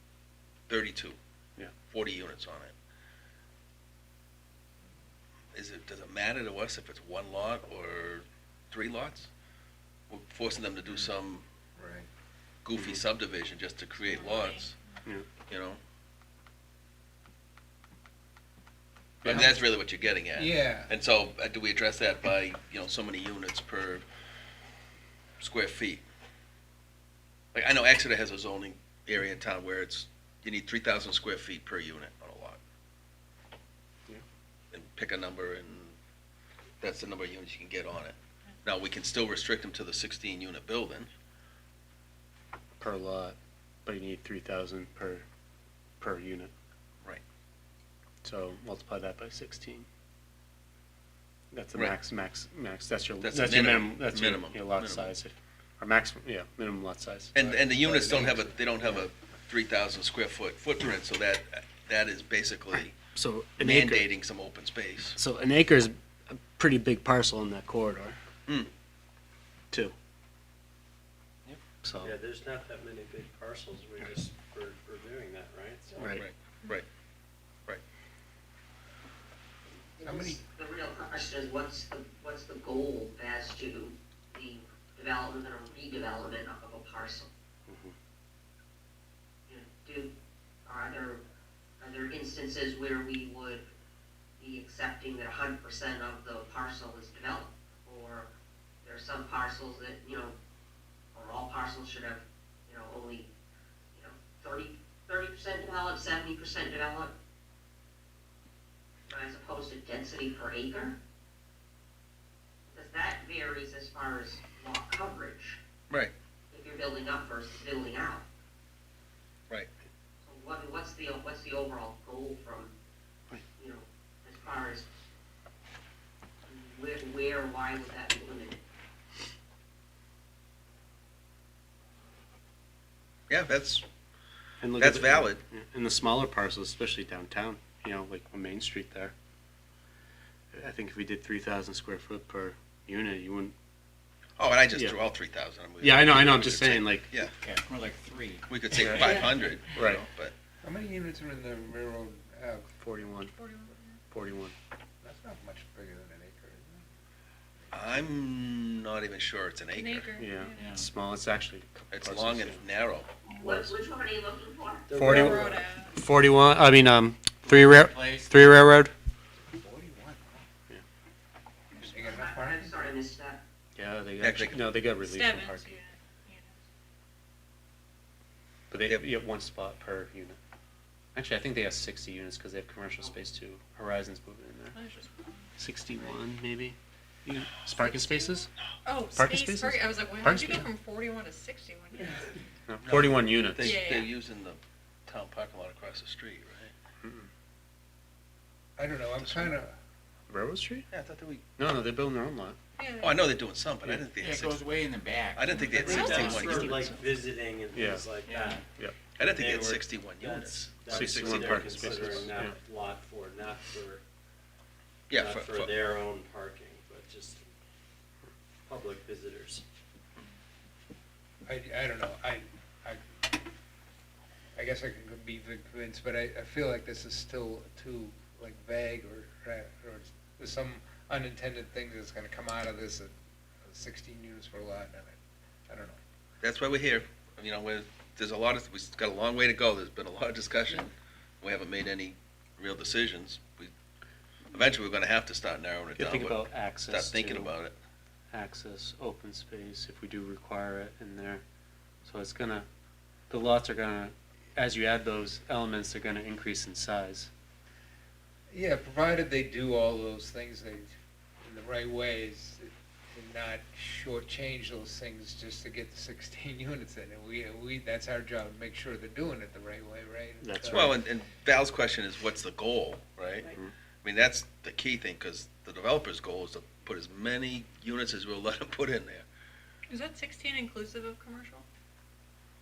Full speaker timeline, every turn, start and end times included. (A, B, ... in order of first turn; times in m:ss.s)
0:00.7-0:01.2 A
0:01.9-0:02.7 A
0:05.5-0:09.3 A
0:10.1-0:11.4 A
0:11.8-0:12.0 B
0:12.6-0:14.7 A
0:14.1-0:14.6 C
0:15.5-0:15.8 A
0:19.2-0:24.0 A
0:19.2-0:19.6 B
0:20.4-0:20.9 B
0:25.4-0:26.0 A
0:27.5-0:32.6 A
0:34.7-0:35.9 A
0:36.8-0:41.1 A
0:42.8-0:45.2 D
0:46.0-0:46.5 D
0:48.2-0:49.9 D
0:51.5-0:57.3 D
0:53.2-0:55.1 A
0:57.3-1:03.0 A
0:57.4-0:58.8 B
1:02.7-1:04.1 D
1:03.6-1:05.2 A
1:05.2-1:08.2 D
1:11.8-1:12.2 D
1:12.0-1:16.0 E
1:16.0-1:16.2 D
1:16.0-1:16.8 A
1:19.9-1:27.3 F
1:20.0-1:20.4 B
1:29.5-1:30.1 F
1:30.6-1:31.2 F
1:31.8-1:33.6 F
1:34.4-1:38.3 F
1:38.8-1:40.4 F
1:41.1-1:43.3 F
1:43.9-1:47.1 F
1:49.1-1:51.0 F
1:52.7-1:55.6 F
1:56.5-1:58.2 F
2:00.2-2:02.7 F
2:03.5-2:04.9 F
2:06.4-2:08.6 F
2:13.3-2:13.8 A
2:14.6-2:19.1 D
2:14.8-2:15.4 A
2:20.5-2:23.5 D
2:24.4-2:27.3 A
2:25.8-2:27.1 D
2:27.4-2:29.1 G
2:28.5-2:30.3 A
2:28.8-2:29.2 D
2:29.7-2:30.0 D
2:30.6-2:32.7 B
2:32.8-2:33.3 D
2:33.4-2:34.0 C
2:34.1-2:34.5 D
2:35.0-2:36.8 B
2:37.7-2:40.2 A
2:37.8-2:38.0 B
2:39.7-2:40.8 C
2:40.2-2:42.6 D
2:40.6-2:40.9 G
2:41.9-2:43.1 A
2:43.4-2:44.9 F
2:44.9-2:45.7 E
2:44.9-2:48.9 D
2:45.2-2:46.0 C
2:47.4-2:48.5 G
2:49.5-2:50.4 B
2:51.8-2:52.0 C
2:51.8-2:52.8 B
2:52.0-2:53.4 F
2:53.8-2:55.8 D
2:54.2-2:54.7 A
2:55.0-2:56.5 C
2:58.7-3:00.4 D
2:58.8-2:59.0 A
3:01.1-3:04.8 D
3:04.7-3:05.5 C
3:05.6-3:08.5 D
3:07.8-3:12.3 C
3:09.1-3:10.7 D
3:12.7-3:13.8 D
3:12.8-3:16.7 A
3:13.6-3:14.1 C
3:17.0-3:17.3 D
3:18.8-3:19.7 B
3:19.2-3:19.5 A
3:20.3-3:20.9 D
3:20.9-3:21.4 A
3:21.6-3:22.6 D
3:22.8-3:23.2 C
3:23.0-3:24.6 A
3:24.2-3:27.2 G
3:25.3-3:26.9 A
3:25.7-3:28.6 E
3:25.8-3:26.7 C
3:27.7-3:28.1 D
3:28.2-3:28.6 G
3:28.7-3:29.0 D
3:29.2-3:32.3 A
3:29.2-3:34.0 E
3:30.9-3:32.5 D
3:35.1-3:35.7 A
3:35.1-3:37.4 E
3:38.7-3:39.6 E
3:41.4-3:43.2 B
3:44.6-3:53.1 B
3:53.7-3:55.2 B
3:55.7-3:56.0 B
3:56.4-4:03.7 A
4:04.5-4:07.7 A
4:05.9-4:07.5 D
4:08.3-4:11.4 D
4:12.0-4:12.7 D
4:13.3-4:17.3 D
4:18.5-4:20.9 B
4:21.4-4:30.9 B
4:30.4-4:31.0 D
4:30.7-4:33.5 A
4:34.0-4:39.2 A
4:39.9-4:41.6 C